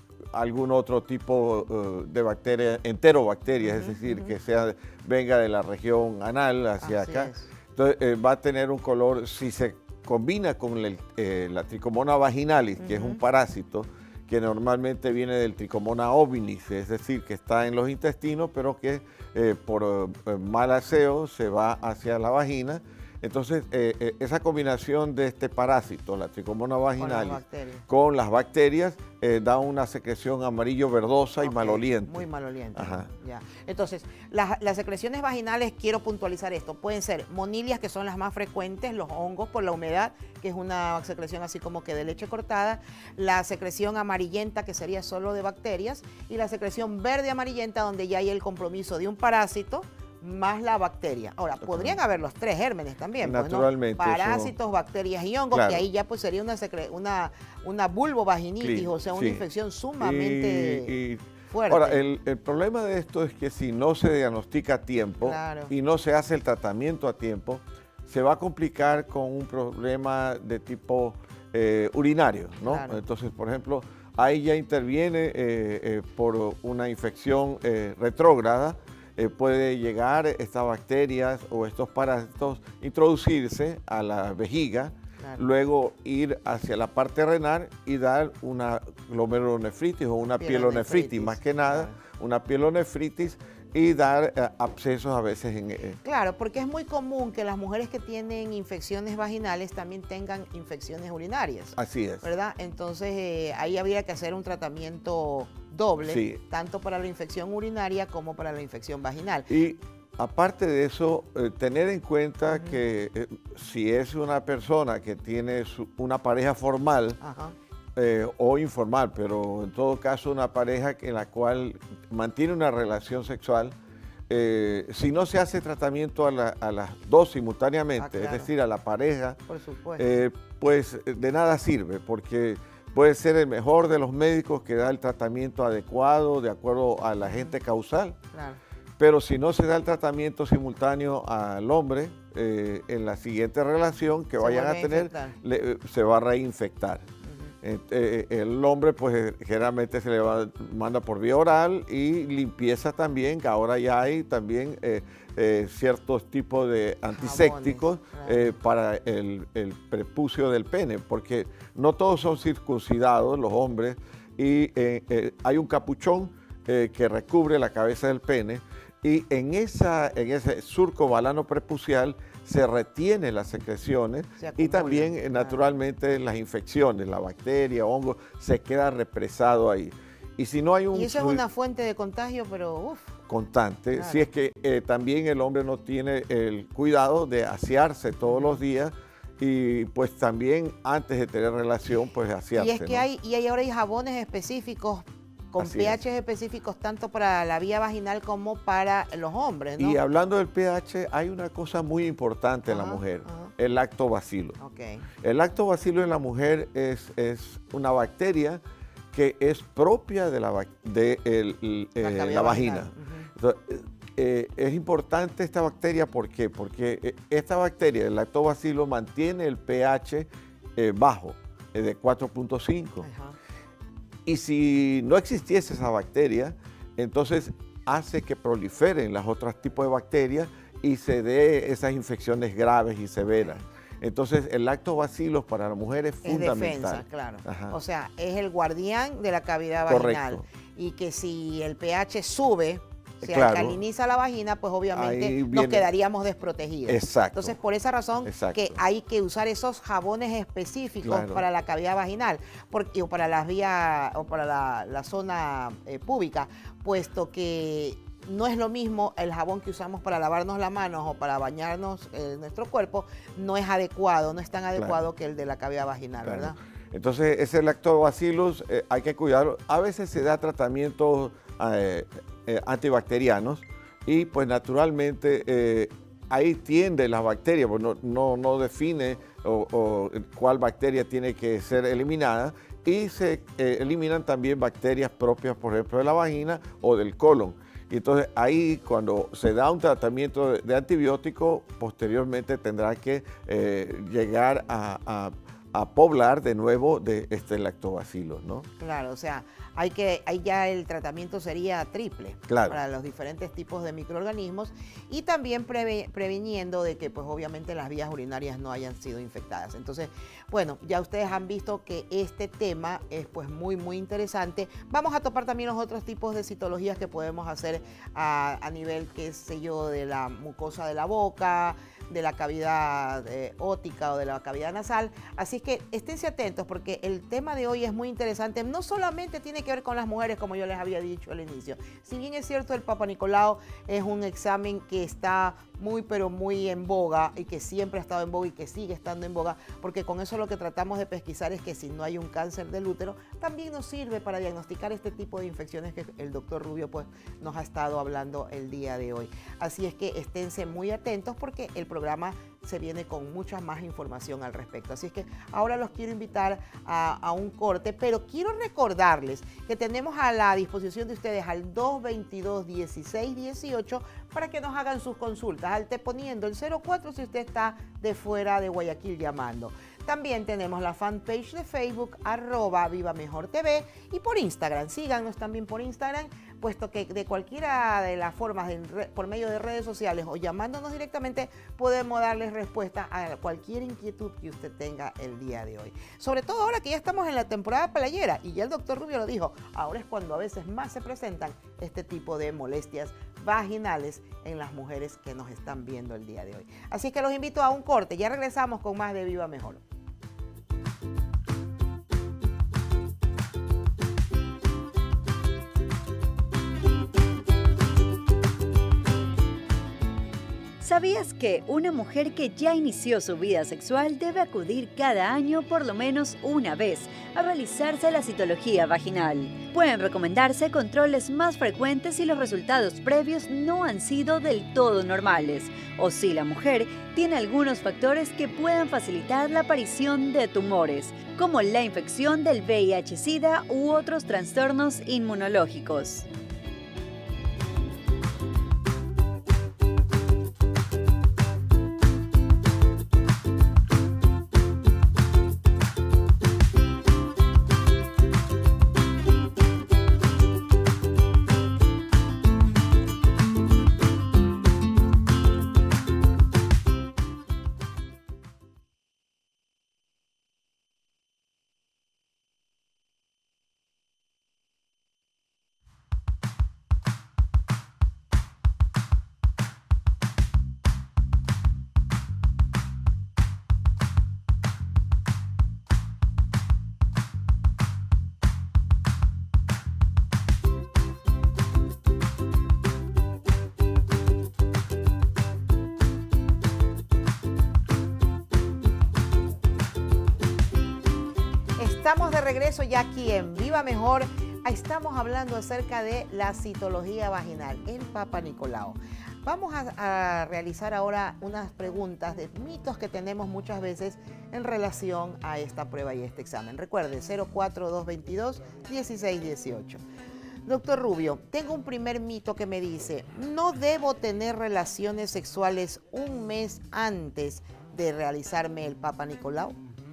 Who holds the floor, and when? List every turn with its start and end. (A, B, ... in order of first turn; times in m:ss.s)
0:00.3-0:33.1 A
0:03.6-0:04.3 B
0:06.8-0:07.5 B
0:12.8-0:13.2 B
0:27.0-0:27.9 B
0:31.4-1:01.0 B
0:51.6-0:52.0 A
0:53.2-0:54.5 A
0:55.5-0:55.8 A
0:58.6-0:59.4 A
1:00.0-1:36.0 A
1:01.5-1:02.0 B
1:05.2-1:05.7 B
1:12.7-1:13.0 B
1:25.2-1:25.5 B
1:30.4-1:32.0 B
1:36.0-1:49.5 B
1:41.8-1:42.3 A
1:46.0-1:46.4 A
1:49.5-1:57.2 A
1:52.5-1:52.8 B
1:57.2-1:57.6 B
1:58.0-2:03.8 A
2:04.3-2:09.4 A
2:08.0-2:08.5 B
2:09.5-2:10.1 B
2:10.0-2:18.2 A
2:18.3-2:18.6 B
2:19.0-2:27.1 A
2:24.4-2:25.4 B
2:27.2-2:27.5 B
2:27.6-3:01.4 A
2:37.1-2:38.5 B
2:54.4-2:55.6 B
3:00.9-3:03.2 B
3:03.3-3:13.0 A
3:04.0-3:04.3 B
3:12.6-3:20.0 B
3:15.6-3:16.0 A
3:19.8-3:24.6 A
3:22.7-3:23.5 B
3:24.6-3:25.1 B
3:25.2-3:28.6 A
3:29.1-3:43.1 A
3:32.0-3:33.3 B
3:43.0-3:43.4 B
3:44.3-3:57.8 A
3:56.2-4:26.6 B
3:59.9-4:00.4 A
4:03.2-4:03.8 A
4:04.9-4:05.9 A
4:06.9-4:07.6 A
4:08.2-4:08.8 A
4:11.0-4:11.4 A
4:26.2-4:58.7 A
4:58.8-6:39.8 B
5:02.5-5:02.8 A
6:50.8-7:16.3 C
8:11.8-8:30.0 B
8:30.7-8:39.8 B